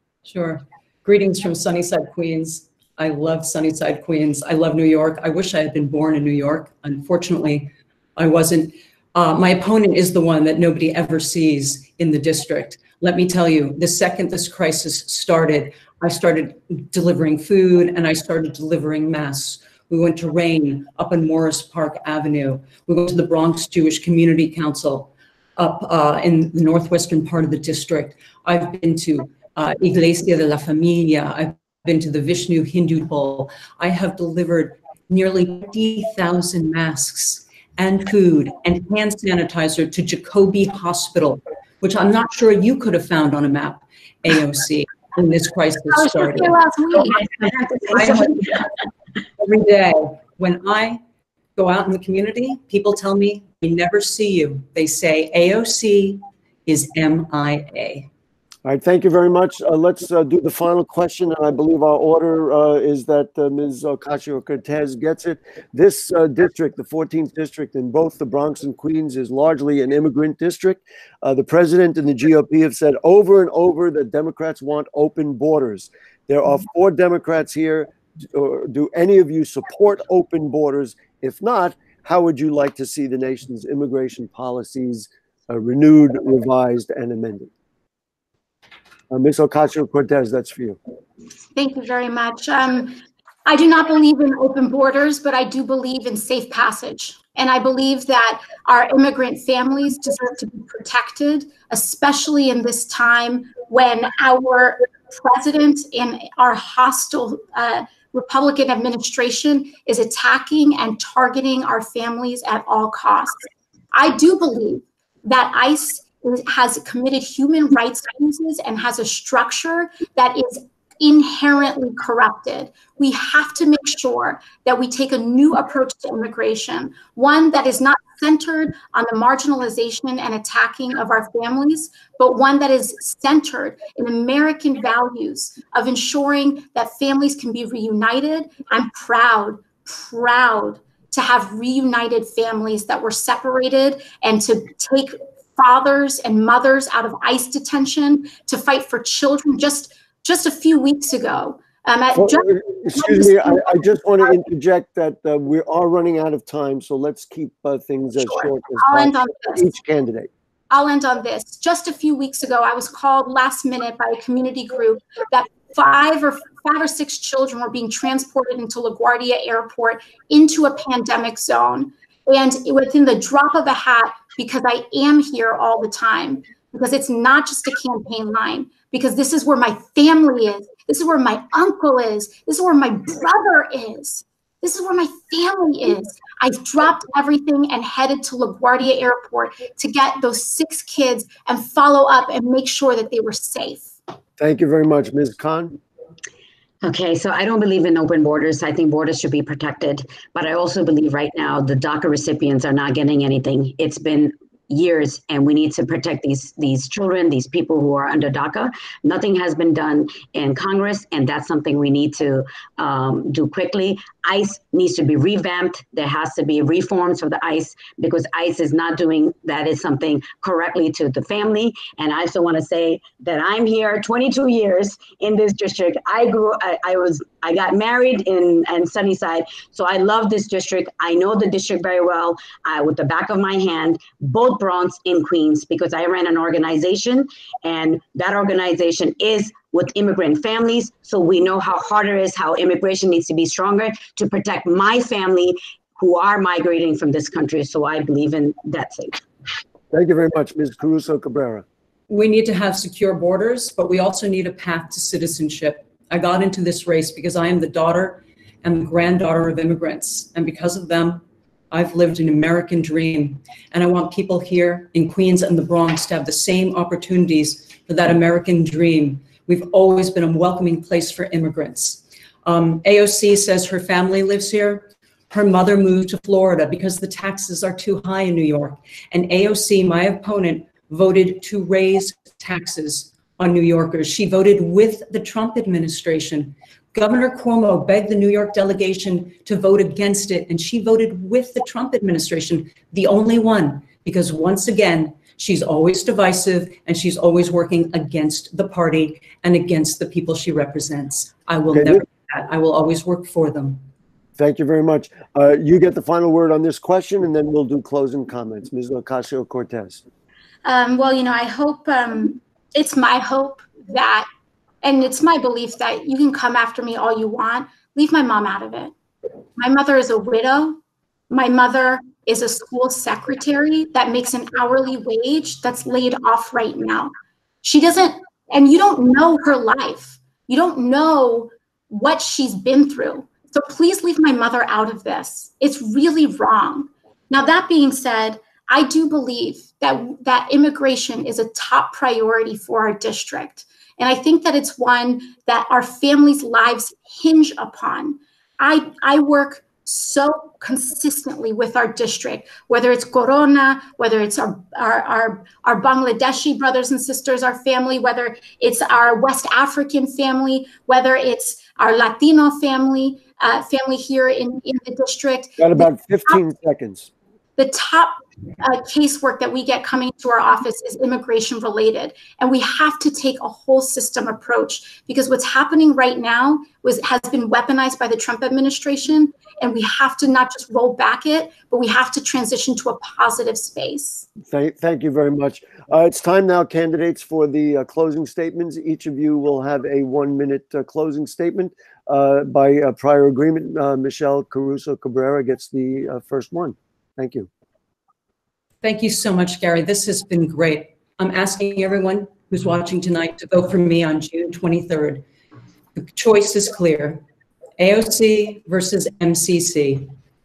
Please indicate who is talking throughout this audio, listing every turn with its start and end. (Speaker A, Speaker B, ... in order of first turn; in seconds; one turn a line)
Speaker A: 0.2-46.6
Speaker B: 45.9-47.2
Speaker C: 47.0-48.6
Speaker A: 47.1-48.7
Speaker A: 49.4-51.0
Speaker A: 51.5-58.1
Speaker D: 58.6-87.5
Speaker D: 89.1-90.8
Speaker B: 91.5-153.8
Speaker D: 152.1-160.3
Speaker B: 158.2-159.7
Speaker B: 160.7-193.9
Speaker D: 194.4-195.8
Speaker C: 196.8-249.2
Speaker D: 249.9-251.6
Speaker A: 252.1-303.8
Speaker D: 301.7-302.0
Speaker D: 304.4-310.0
Speaker B: 310.6-314.3
Speaker B: 314.8-318.9
Speaker B: 319.6-320.8
Speaker B: 321.3-327.1
Speaker B: 327.6-366.4
Speaker D: 365.6-367.1
Speaker B: 367.6-384.3
Speaker D: 384.5-397.5
Speaker A: 398.8-405.2
Speaker A: 405.9-407.2
Speaker A: 407.8-410.1